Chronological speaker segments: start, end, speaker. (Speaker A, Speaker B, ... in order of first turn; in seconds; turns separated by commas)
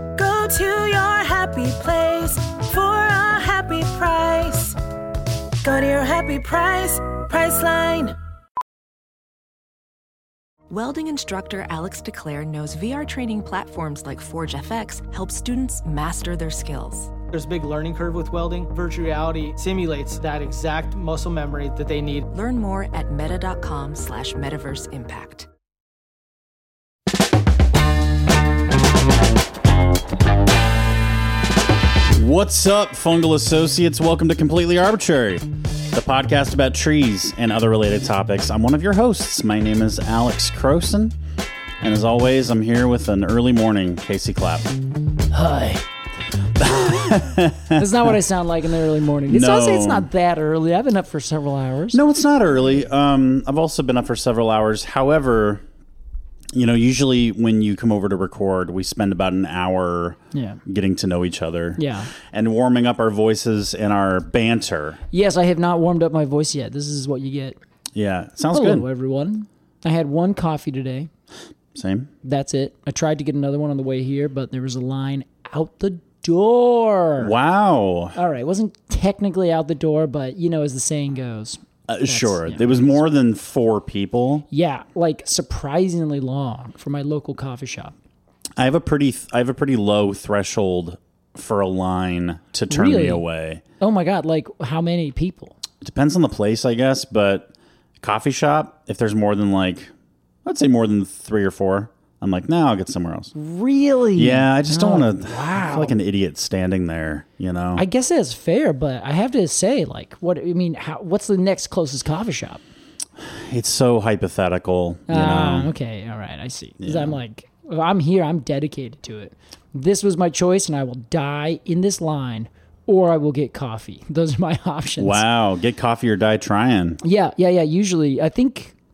Speaker A: 0.2-4.8, Speaker A: 5.6-8.2, Speaker B: 10.7-17.1, Speaker C: 17.3-22.3, Speaker B: 22.3-25.5, Speaker D: 32.1-41.2, Speaker D: 41.8-44.7, Speaker E: 45.3-45.9, Speaker D: 46.6-48.1, Speaker E: 47.8-52.0, Speaker D: 49.3-50.1, Speaker D: 51.9-55.6, Speaker D: 56.5-65.0, Speaker E: 60.3-60.6, Speaker E: 61.8-62.1, Speaker E: 65.1-67.6, Speaker D: 67.9-68.9, Speaker E: 68.5-71.1, Speaker D: 71.8-72.1, Speaker E: 72.2-77.3, Speaker D: 77.2-78.2, Speaker E: 78.2-83.0, Speaker D: 81.9-84.5, Speaker E: 84.5-87.9, Speaker D: 88.6-93.6, Speaker E: 92.7-93.2, Speaker E: 93.8-95.5, Speaker D: 95.8-99.9, Speaker D: 100.4-103.3, Speaker E: 103.3-106.0, Speaker D: 104.2-107.8, Speaker E: 107.8-112.6, Speaker D: 113.2-115.7, Speaker E: 115.1-125.2, Speaker D: 116.8-117.2, Speaker D: 125.0-127.0, Speaker E: 127.0-128.8